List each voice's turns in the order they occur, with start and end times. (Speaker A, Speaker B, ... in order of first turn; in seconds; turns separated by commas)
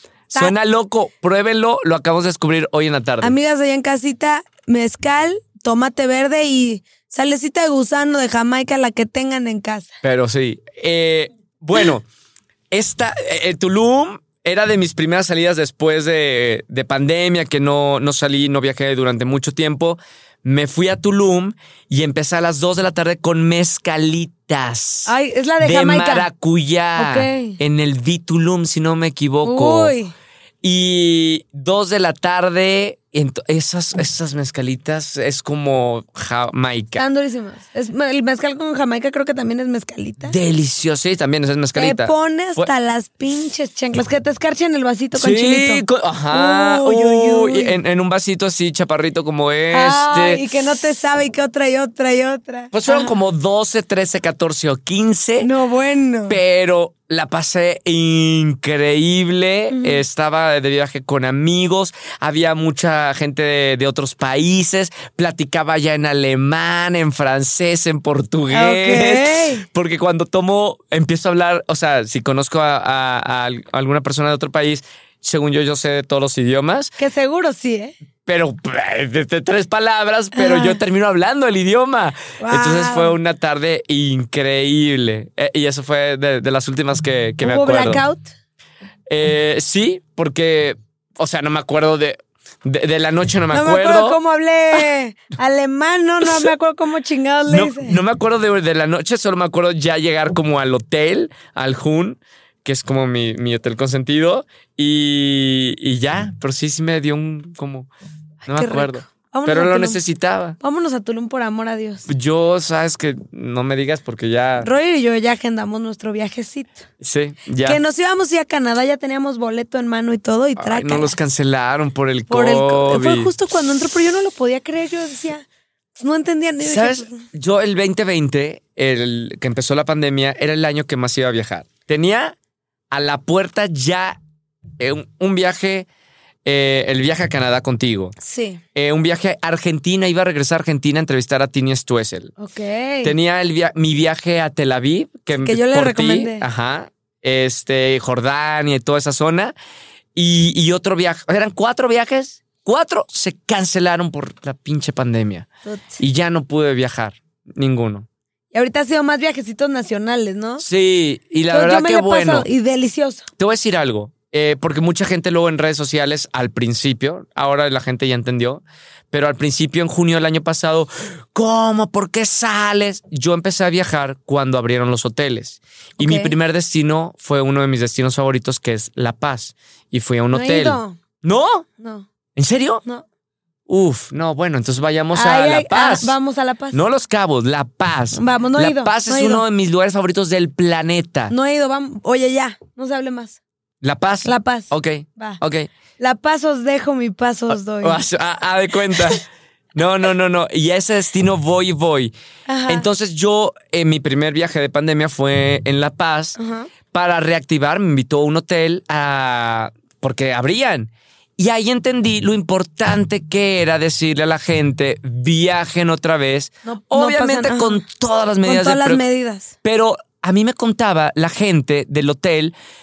Speaker A: 0.3-3.3, Speaker B: 3.2-9.9, Speaker A: 10.0-12.0, Speaker A: 12.7-29.9, Speaker B: 25.1-26.3, Speaker B: 27.0-27.6, Speaker B: 29.4-30.1, Speaker A: 30.6-37.0, Speaker B: 36.9-40.4, Speaker A: 40.2-42.7, Speaker B: 41.8-47.8, Speaker A: 45.1-50.4, Speaker B: 49.7-53.1, Speaker A: 52.7-55.5, Speaker B: 55.4-56.4, Speaker A: 56.3-76.9, Speaker B: 59.7-60.0, Speaker B: 68.5-69.7, Speaker B: 77.0-77.9, Speaker A: 78.2-88.0, Speaker B: 80.3-80.8, Speaker B: 82.4-83.2, Speaker B: 87.4-88.3, Speaker A: 89.1-94.2, Speaker B: 93.5-98.0, Speaker A: 97.5-107.9, Speaker B: 108.5-110.0, Speaker A: 108.5-110.6, Speaker B: 110.6-112.1, Speaker A: 112.1-114.7, Speaker B: 114.6-116.8, Speaker A: 117.0-117.8, Speaker B: 117.6-121.2, Speaker A: 120.6-123.3, Speaker B: 122.3-125.4, Speaker B: 126.0-127.2, Speaker A: 126.6-132.3, Speaker A: 132.9-134.2, Speaker A: 134.8-135.9, Speaker A: 136.4-138.1, Speaker B: 138.2-138.6, Speaker A: 138.7-142.3, Speaker B: 142.4-143.1, Speaker A: 143.0-149.5, Speaker B: 145.4-146.4, Speaker A: 150.1-155.5, Speaker B: 155.7-156.0, Speaker A: 156.0-158.1, Speaker B: 158.5-160.6, Speaker A: 160.6-162.5, Speaker B: 161.5-163.3, Speaker A: 163.4-181.7, Speaker B: 176.0-176.3, Speaker B: 180.3-181.0, Speaker B: 181.8-182.1, Speaker A: 182.3-182.8, Speaker A: 183.7-186.2, Speaker B: 185.1-186.8, Speaker A: 186.7-191.3, Speaker B: 188.1-189.4, Speaker B: 191.3-193.4, Speaker A: 193.8-195.7, Speaker B: 194.2-195.4, Speaker B: 196.0-198.0, Speaker A: 197.8-202.1, Speaker B: 202.5-202.9, Speaker A: 202.7-206.4, Speaker B: 206.4-206.7, Speaker A: 206.9-219.0, Speaker B: 216.7-217.8, Speaker B: 218.4-219.5, Speaker A: 219.6-222.5